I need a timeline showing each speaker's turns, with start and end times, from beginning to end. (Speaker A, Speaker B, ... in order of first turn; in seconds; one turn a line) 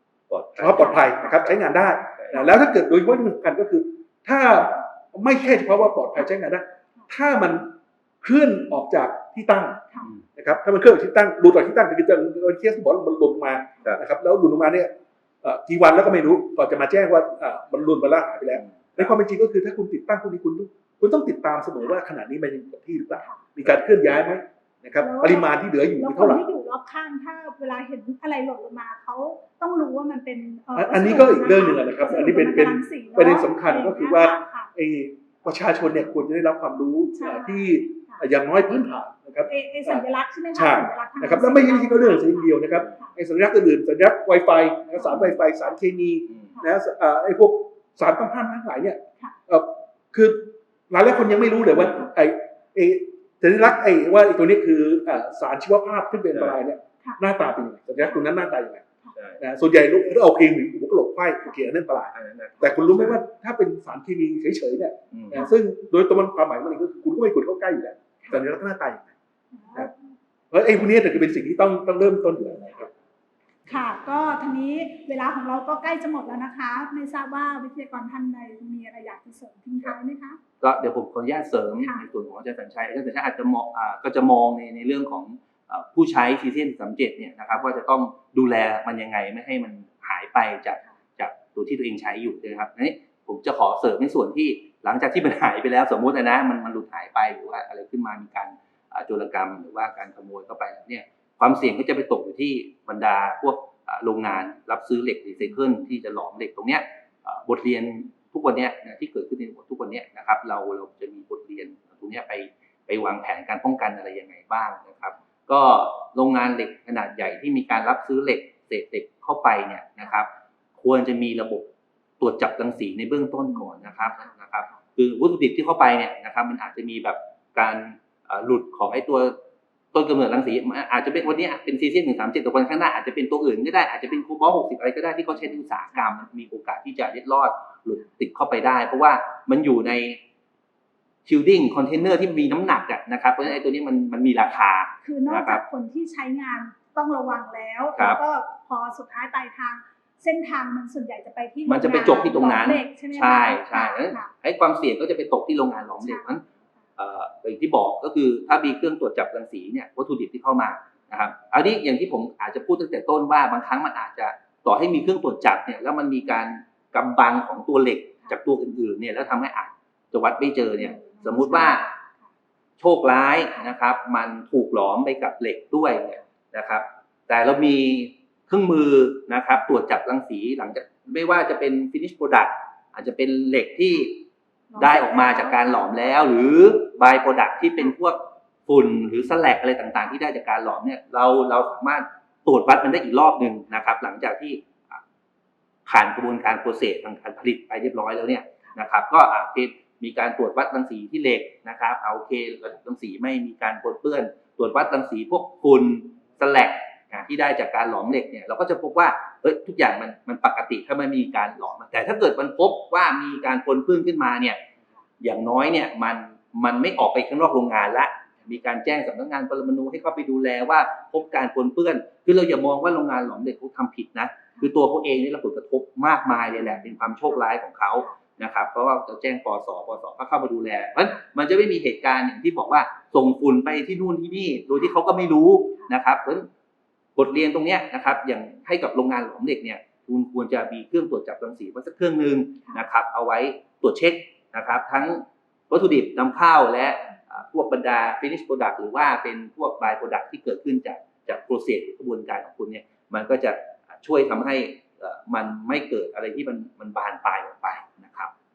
Speaker A: 0.3-1.5
Speaker B: 0.6-26.4
Speaker C: 2.3-2.6
Speaker A: 18.5-19.1
Speaker C: 25.0-34.7
Speaker B: 30.8-58.8
Speaker C: 37.2-38.2
Speaker C: 39.5-43.1
Speaker C: 45.0-45.4
Speaker B: 59.4-69.1
Speaker A: 62.1-63.2
Speaker A: 65.1-65.4
Speaker C: 69.5-70.0
Speaker B: 70.5-72.9
Speaker C: 73.7-80.4
Speaker A: 80.6-121.7
Speaker A: 122.2-129.4
Speaker C: 123.5-124.3
Speaker A: 129.9-140.2
Speaker A: 141.3-145.6
Speaker C: 145.0-154.3
Speaker A: 151.7-156.4
Speaker C: 156.0-156.3
Speaker A: 157.0-171.8
Speaker C: 170.8-172.3
Speaker A: 172.8-195.0
Speaker C: 184.7-185.8
Speaker A: 195.9-214.6
Speaker A: 215.2-236.5
Speaker A: 237.2-258.3